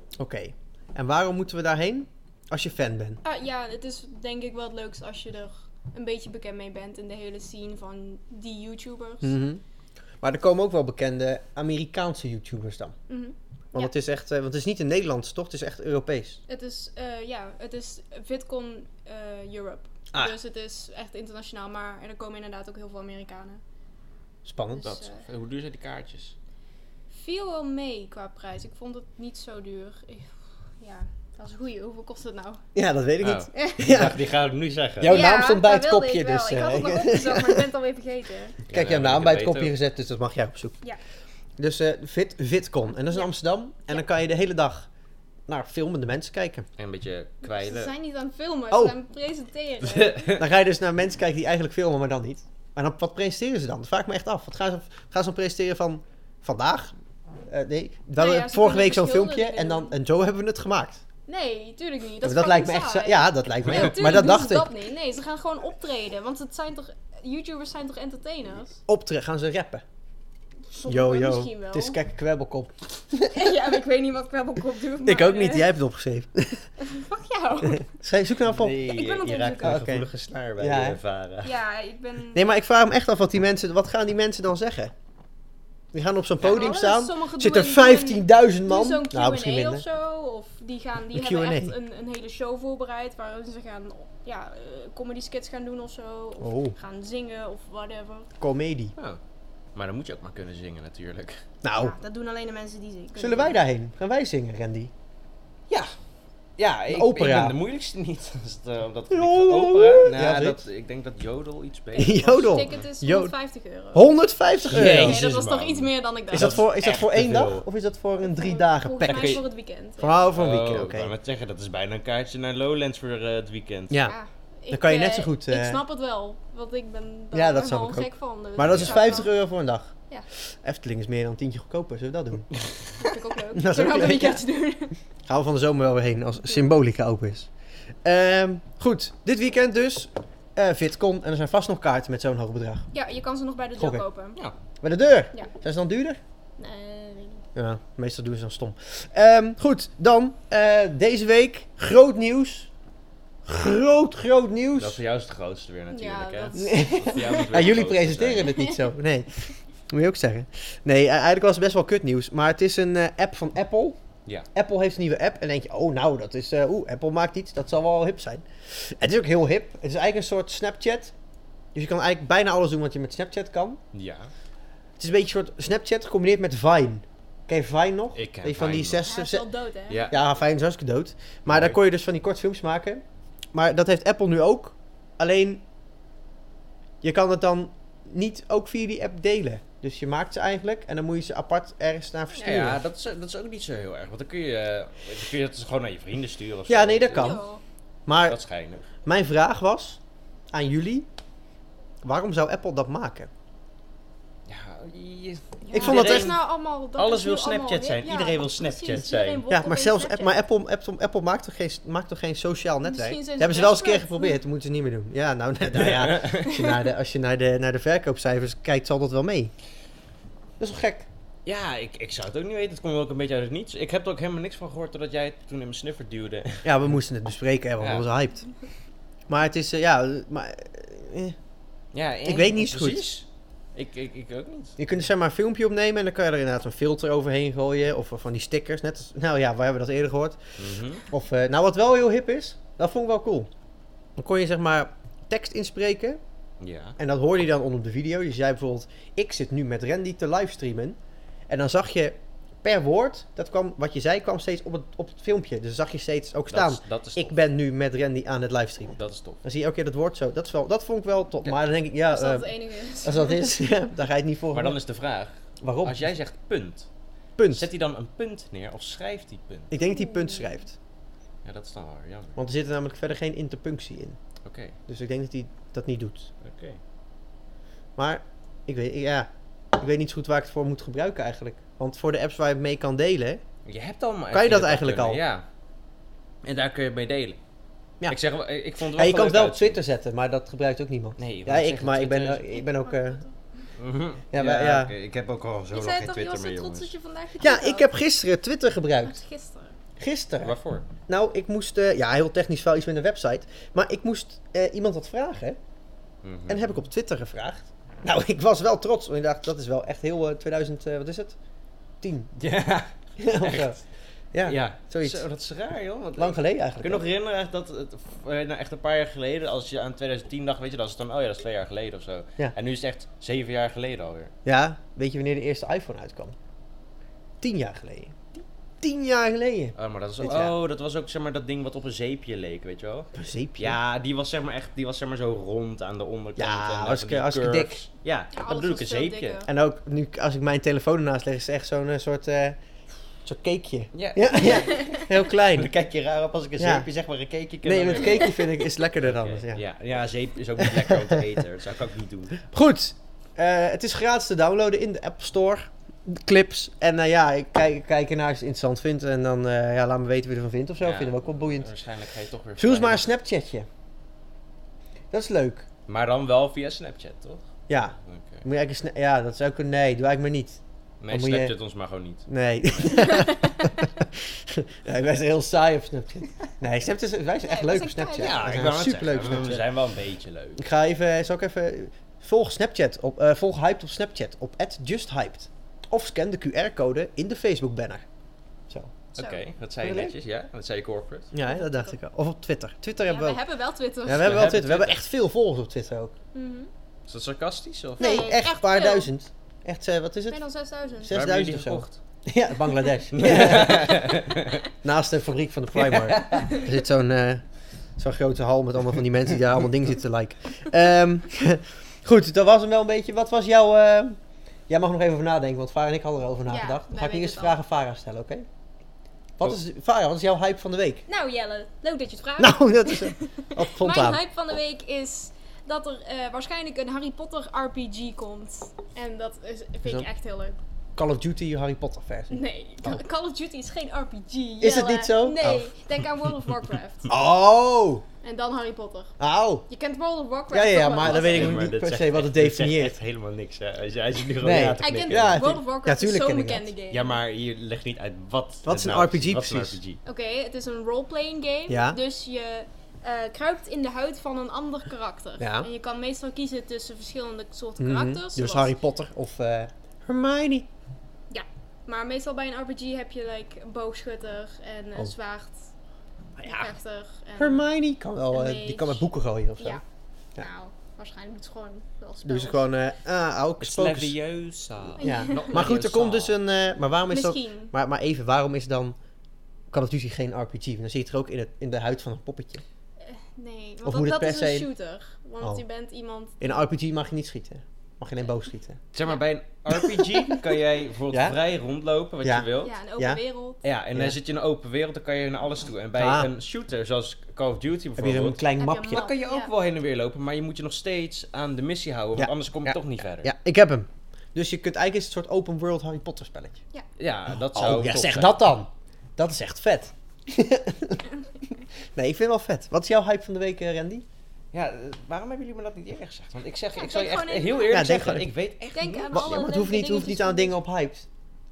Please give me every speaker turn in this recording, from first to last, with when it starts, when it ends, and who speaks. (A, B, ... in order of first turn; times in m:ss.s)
0:00.2-0:03.2 A
0:03.2-0:09.4 B
0:09.2-0:09.6 A
0:10.2-0:13.0 A
0:13.1-0:13.9 B
0:13.7-0:16.4 A
0:16.5-0:23.6 B
0:24.4-0:24.8 A
0:24.7-0:25.2 B
0:24.8-0:26.3 C
0:27.1-0:32.6 B
0:32.7-0:34.2 A
0:33.2-0:35.2 C
0:33.5-0:33.8 B
0:35.0-0:37.7 A
0:35.1-0:38.6 B
0:38.7-0:40.8 A
0:38.7-0:39.7 C
0:41.6-0:44.9 A
0:45.5-0:46.6 A
0:46.8-0:47.9 C
0:47.4-0:50.4 B
0:48.7-0:49.0 A
0:49.8-0:50.4 C
0:50.4-0:56.9 A
0:57.5-1:01.0 A
0:58.2-0:59.9 B
1:01.3-1:08.8 B
1:02.2-1:04.7 A
1:03.7-1:03.9 C
1:08.9-1:09.8 A
1:10.7-1:12.0 B
1:10.9-1:13.6 A
1:13.3-1:15.7 B
1:15.0-1:16.7 A
1:16.8-1:17.9 B
1:17.7-1:18.9 A
1:18.4-1:21.5 C
1:18.8-1:19.8 B
1:19.6-1:21.0 A
1:21.4-1:22.5 B
1:22.3-1:24.9 A
1:25.9-1:29.8 A
1:26.4-1:26.8 C
1:26.4-1:38.3 B
1:31.1-1:31.7 A
1:36.4-1:36.7 A
1:38.4-1:38.9 A
1:39.7-1:41.4 C
1:41.6-1:41.9 A
1:41.7-1:43.6 B
1:43.2-1:44.9 A
1:46.6-1:52.7 C
1:46.9-1:47.6 A
1:49.1-1:50.6 A
1:52.0-1:53.3 A
1:52.3-1:54.1 B
1:53.9-1:55.3 A
1:54.6-1:57.6 C
1:54.7-1:56.6 B
1:56.3-1:59.4 A
1:58.2-2:00.2 B
1:59.0-1:59.4 C
2:00.0-2:01.1 A
2:00.3-2:04.0 C
2:03.9-2:04.2 A
2:04.1-2:09.3 B
2:04.7-2:05.8 A
2:07.3-2:12.5 A
2:08.6-2:09.2 C
2:13.0-2:14.9 B
2:13.5-2:14.4 A
2:15.2-2:17.5 A
2:18.0-2:22.9 A
2:22.9-2:24.4 B
2:23.8-2:24.0 A
2:24.8-2:26.2 A
2:26.6-2:27.4 B
2:27.5-2:32.7 A
2:33.4-2:35.0 A
2:34.8-2:38.6 C
2:35.9-2:37.7 B
2:36.6-2:44.0 A
2:38.5-2:38.8 B
2:44.5-2:51.1 A
2:51.7-2:53.8 A
2:53.9-2:54.3 C
2:55.0-2:59.4 A
2:58.2-2:59.1 C
2:59.0-3:00.1 B
2:59.9-3:00.2 C
3:00.1-3:03.0 A
3:01.5-3:01.8 C
3:03.5-3:05.6 A
3:07.0-3:12.8 A
3:12.3-3:17.4 C
3:16.7-3:17.4 A
3:17.1-3:17.6 B
3:18.0-3:18.4 A
3:18.3-3:18.8 C
3:19.0-3:20.0 A
3:20.5-3:21.1 A
3:22.0-3:23.3 A
3:24.5-3:29.4 C
3:25.6-3:30.4 B
3:25.7-3:26.3 A
3:29.5-3:39.5 A
3:32.8-3:34.4 B
3:35.7-3:36.6 C
3:40.6-3:41.1 A
3:41.4-3:46.6 C
3:46.6-3:48.5 A
3:47.8-3:48.0 C
3:49.3-3:51.4 A
3:51.9-3:54.8 C
3:52.2-3:53.0 A
3:54.8-4:00.4 A
4:00.6-4:01.0 C
4:01.1-4:03.5 A
4:04.2-4:06.2 A
4:06.6-4:07.0 C
4:07.0-4:11.0 A
4:11.5-4:24.8 A
4:16.5-4:17.4 C
4:19.0-4:19.4 C
4:22.1-4:23.5 B
4:24.5-4:26.9 C
4:25.6-4:26.1 A
4:27.4-4:27.7 A
4:27.5-4:29.7 C
4:29.7-4:30.7 A
4:29.8-4:30.6 B
4:31.4-4:32.4 C
4:32.4-4:34.2 A
4:34.4-4:34.8 C
4:34.9-4:36.3 A
4:36.4-4:36.8 C
4:38.0-4:43.4 A
4:43.6-4:45.4 C
4:44.3-4:45.2 A
4:46.4-4:47.4 C
4:48.1-4:49.8 C
4:48.8-4:53.2 A
4:51.2-4:52.5 C
4:52.5-4:53.6 B
4:53.8-4:56.9 C
4:54.3-4:54.9 A
4:55.7-4:57.9 B
4:57.4-4:59.2 A
4:59.0-4:59.8 B
5:00.0-5:00.5 A
5:00.4-5:00.9 C
5:01.1-5:05.6 A
5:06.2-5:06.7 C
5:06.5-5:11.4 A
5:12.0-5:12.3 A
5:12.4-5:13.7 C
5:13.2-5:13.8 A
5:14.3-5:15.2 A
5:14.4-5:24.3 C
5:16.2-5:17.0 A
5:24.4-5:26.3 A
5:27.4-5:30.5 A
5:29.8-5:39.4 C
5:33.1-5:33.8 A
5:36.4-5:37.8 A
5:38.3-5:39.5 B
5:39.4-5:42.6 A
5:43.2-5:45.7 A
5:43.9-5:48.4 C
5:44.7-5:45.0 B
5:46.6-5:46.9 A
5:47.6-5:49.6 A
5:49.0-5:52.4 C
5:50.6-5:51.2 A
5:52.4-6:01.7 A
6:00.8-6:03.1 C
6:02.6-6:03.7 A
6:05.1-6:05.6 A
6:05.9-6:07.4 C
6:07.7-6:11.5 A
6:08.0-6:08.4 C
6:11.0-6:12.3 C
6:12.3-6:19.6 A
6:13.0-6:13.7 B
6:17.4-6:18.4 B
6:18.2-6:20.6 C
6:20.6-6:28.0 A
6:28.7-6:29.0 A
6:29.1-6:31.3 C
6:29.8-6:30.1 A
6:31.3-6:33.4 A
6:31.4-6:32.0 B
6:33.0-6:34.4 B
6:34.0-6:36.1 A
6:34.1-6:35.0 C
6:36.3-6:36.7 B
6:37.1-6:38.2 C
6:38.0-6:39.1 B
6:38.0-6:40.4 A
6:40.3-6:41.2 B
6:41.0-6:44.0 A
6:41.1-6:42.0 C
6:43.1-6:44.6 C
6:44.8-6:47.4 A
6:45.7-6:46.6 C
6:46.4-6:46.7 B
6:48.0-6:58.5 A
6:56.4-6:57.6 B
6:59.4-7:01.0 A
7:01.1-7:10.6 B
7:02.4-7:04.2 A
7:11.0-7:13.0 A
7:12.3-7:17.1 B
7:14.6-7:15.7 A
7:17.1-7:18.0 A
7:18.2-7:19.1 B
7:19.2-7:19.6 A
7:19.7-7:21.6 B
7:20.5-7:22.9 A
7:21.0-7:25.4 C
7:24.4-7:26.7 A
7:24.8-7:27.2 B
7:26.9-7:30.0 C
7:28.6-7:29.8 A
7:30.0-7:38.7 B
7:31.7-7:32.0 A
7:35.4-7:35.7 A
7:37.8-7:40.7 A
7:41.3-7:45.7 B
7:46.4-7:46.6 C
7:46.4-7:47.6 B
7:47.4-7:49.8 A
7:48.3-7:49.8 B
7:50.4-7:52.6 B
7:52.2-7:54.2 A
7:53.6-7:56.4 C
7:55.0-7:55.6 B
7:55.0-7:59.0 A
7:57.1-7:57.7 B
7:59.7-8:02.6 A
8:03.0-8:06.6 B
8:03.8-8:04.7 A
8:06.4-8:08.8 A
8:08.9-8:12.7 C
8:11.1-8:11.4 A
8:12.2-8:13.2 A
8:12.6-8:13.6 B
8:13.6-8:23.3 C
8:16.0-8:16.3 A
8:18.0-8:19.1 A
8:18.6-8:19.5 B
8:22.2-8:26.6 A
8:27.0-8:28.4 C
8:27.5-8:34.0 A
8:34.5-8:39.5 C
8:36.8-8:37.9 B
8:37.7-8:38.3 A
8:38.7-8:40.6 B
8:39.1-8:41.1 A